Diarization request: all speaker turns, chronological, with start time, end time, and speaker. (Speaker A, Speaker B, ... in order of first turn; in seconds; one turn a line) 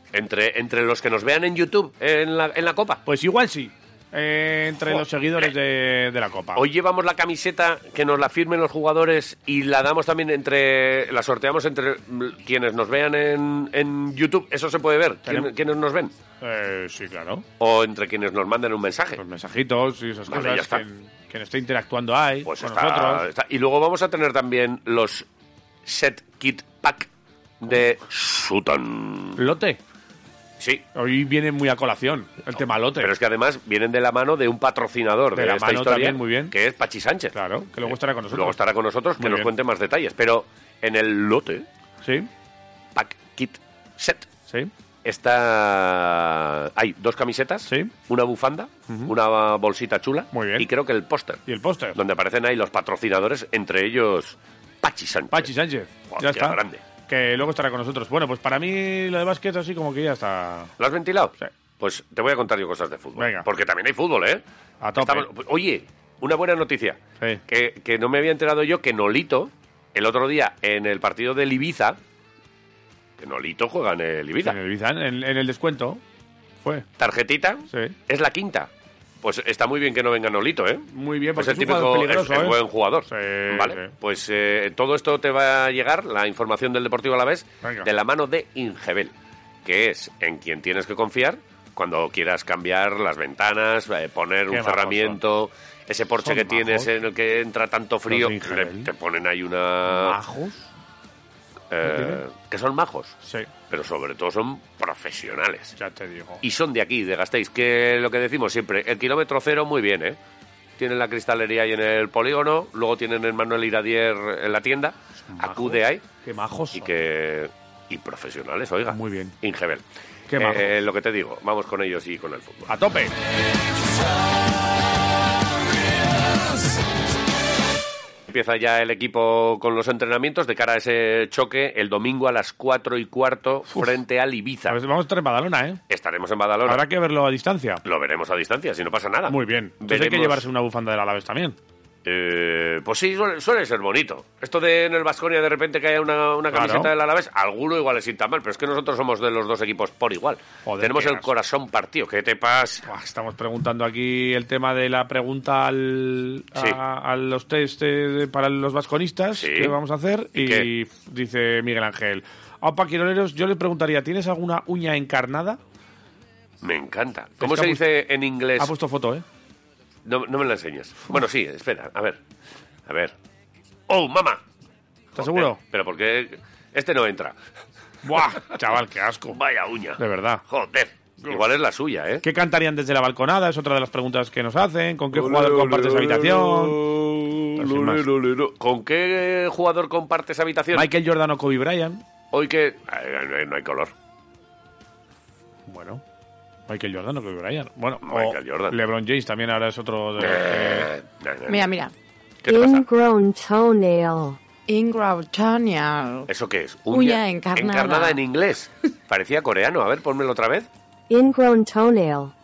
Speaker A: 0.1-3.0
Speaker B: 3.0-6.6
Speaker A: 5.0-5.5
Speaker A: 6.5-16.1
Speaker B: 15.2-15.5
Speaker B: 16.4-17.4
Speaker A: 17.6-19.2
Speaker B: 19.2-23.2
Speaker A: 20.3-20.8
Speaker A: 22.4-25.2
Speaker A: 25.9-27.1
Speaker A: 27.6-29.4
Speaker B: 29.4-29.8
Speaker A: 30.6-30.8
Speaker B: 30.9-33.1
Speaker A: 33.0-37.3
Speaker B: 35.3-36.5
Speaker B: 37.3-38.6
Speaker A: 37.9-41.6
Speaker B: 39.2-39.5
Speaker B: 42.0-42.3
Speaker A: 42.9-44.3
Speaker A: 45.0-51.4
Speaker B: 47.7-47.9
Speaker B: 50.3-50.7
Speaker B: 51.5-52.0
Speaker A: 51.9-55.5
Speaker B: 55.3-60.7
Speaker A: 56.1-56.8
Speaker A: 60.8-64.4
Speaker B: 63.2-63.5
Speaker B: 64.8-65.3
Speaker A: 65.0-72.0
Speaker A: 73.2-74.6
Speaker B: 74.4-76.0
Speaker A: 77.0-78.7
Speaker B: 77.7-77.9
Speaker A: 79.2-89.1
Speaker B: 80.9-82.6
Speaker B: 83.1-83.9
Speaker B: 87.6-87.9
Speaker A: 89.6-100.2
Speaker B: 94.5-95.2
Speaker B: 96.2-96.9
Speaker B: 98.1-98.9
Speaker B: 99.9-100.6
Speaker A: 101.7-103.1
Speaker B: 101.8-102.2
Speaker B: 103.2-103.5
Speaker A: 103.7-105.7
Speaker B: 105.8-106.4
Speaker A: 106.4-110.2
Speaker A: 110.8-116.0
Speaker B: 115.3-116.9
Speaker A: 116.7-119.8
Speaker B: 118.9-119.3
Speaker B: 120.3-120.7
Speaker A: 120.4-122.7
Speaker B: 122.7-123.1
Speaker A: 128.3-134.8
Speaker B: 134.7-135.8
Speaker A: 135.9-136.8
Speaker B: 136.7-137.8
Speaker A: 137.8-140.4
Speaker B: 139.3-141.6
Speaker A: 142.0-152.8
Speaker B: 146.5-146.9
Speaker B: 150.7-151.3
Speaker B: 152.9-165.6
Speaker A: 159.3-159.8
Speaker A: 160.3-160.7
Speaker A: 166.6-168.7
Speaker B: 167.4-167.8
Speaker B: 168.6-169.2
Speaker A: 170.1-172.2
Speaker A: 172.9-173.1
Speaker A: 173.9-174.4
Speaker A: 175.1-177.3
Speaker B: 175.2-175.6
Speaker B: 178.0-179.4
Speaker A: 179.3-182.2
Speaker B: 180.0-180.4
Speaker B: 182.2-186.8
Speaker A: 185.1-190.9
Speaker B: 187.6-188.0
Speaker B: 190.7-192.0
Speaker A: 192.3-193.9
Speaker B: 195.7-196.0
Speaker B: 196.7-200.9
Speaker A: 198.0-198.8
Speaker A: 200.2-201.7
Speaker C: 201.5-201.9
Speaker A: 202.4-202.9
Speaker D: 202.5-204.4
Speaker C: 204.7-206.3
Speaker A: 206.3-210.7
Speaker C: 206.9-208.2
Speaker D: 211.1-212.3